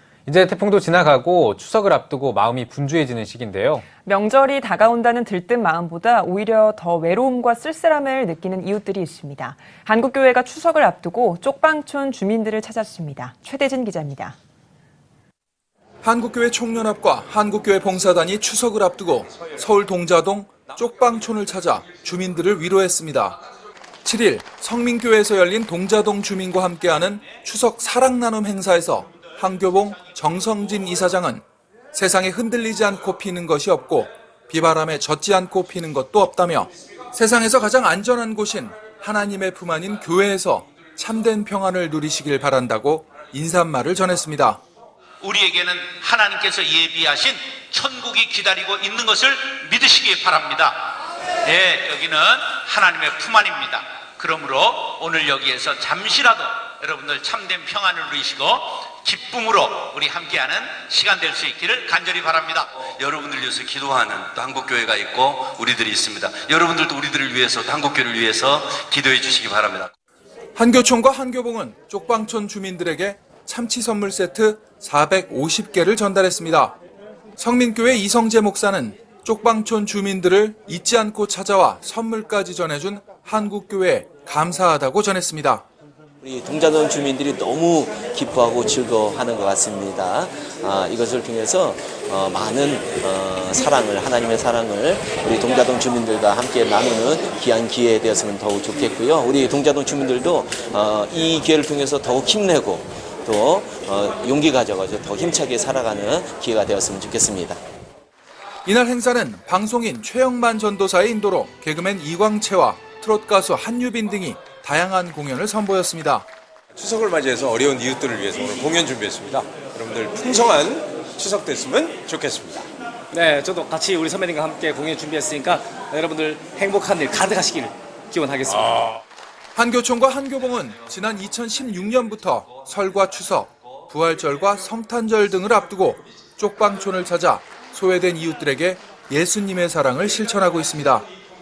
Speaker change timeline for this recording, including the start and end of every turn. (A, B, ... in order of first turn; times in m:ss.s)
0:00.2-0:03.8 A
0:04.0-0:14.4 B
0:16.0-0:23.4 C
0:24.0-0:44.6 C
0:45.2-0:50.8 D
0:51.4-1:02.7 D
1:03.0-1:09.9 E
1:10.6-1:16.8 C
1:17.4-1:25.6 C
1:26.2-1:47.6 F
1:48.6-1:56.3 C
1:56.7-2:02.6 G
2:03.1-2:09.0 H
2:09.6-2:21.1 C